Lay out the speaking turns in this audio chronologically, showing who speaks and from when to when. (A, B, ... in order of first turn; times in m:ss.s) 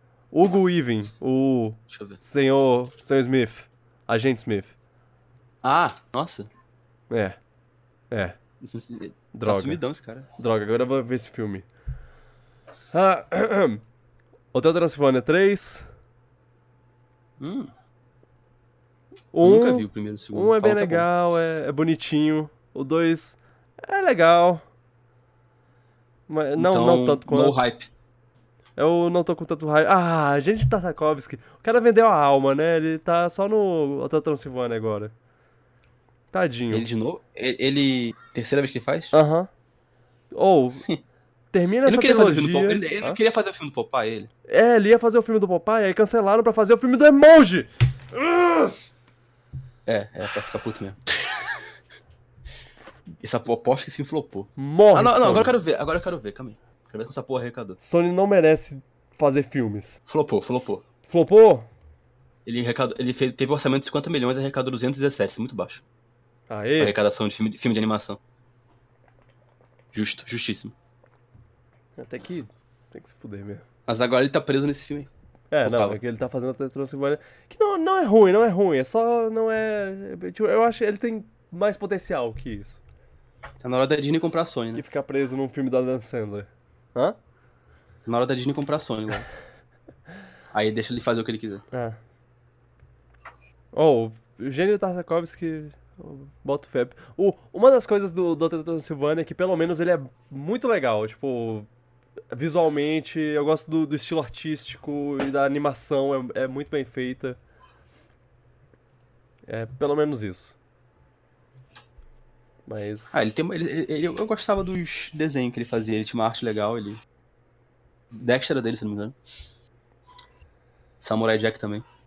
0:00.3-0:04.7 A
0:01.9-0:02.2 B
0:05.6-0:06.5 B
0:07.1-0:07.4 A
0:08.1-0:08.4 A
0:08.6-0:10.3 B
0:09.3-0:09.8 A
0:10.4-0:11.6 A
0:12.9-0:13.8 A
0:14.5-0:15.9 A
0:17.4-0:17.7 B
0:19.3-0:24.6 A
0:19.4-0:21.1 B
0:26.3-0:27.6 A
0:26.6-0:27.9 B
0:28.8-0:35.1 A
0:36.3-0:36.8 A
0:36.7-0:39.1 B
0:39.1-0:39.5 A
0:40.3-0:40.9 A
0:41.5-0:43.2 A
0:41.8-0:44.3 B
0:44.5-0:48.7 A
0:49.8-0:51.6 B
0:53.2-0:57.8 B
0:54.6-0:55.6 A
0:57.8-1:00.0 A
1:00.1-1:00.8 B
1:01.0-1:01.7 A
1:02.4-1:05.8 B
1:06.5-1:07.0 A
1:06.8-1:08.2 B
1:09.9-1:10.7 B
1:12.0-1:13.6 A
1:13.9-1:15.1 B
1:15.5-1:22.8 A
1:15.6-1:16.0 B
1:23.6-1:24.8 B
1:24.7-1:27.2 A
1:28.0-1:29.3 B
1:30.5-1:31.6 B
1:31.7-1:32.0 A
1:33.7-1:41.7 A
1:42.3-1:47.4 A
1:49.5-1:50.6 A
1:52.7-1:53.3 A
1:53.1-1:57.0 B
1:58.1-1:59.1 B
2:01.0-2:01.8 B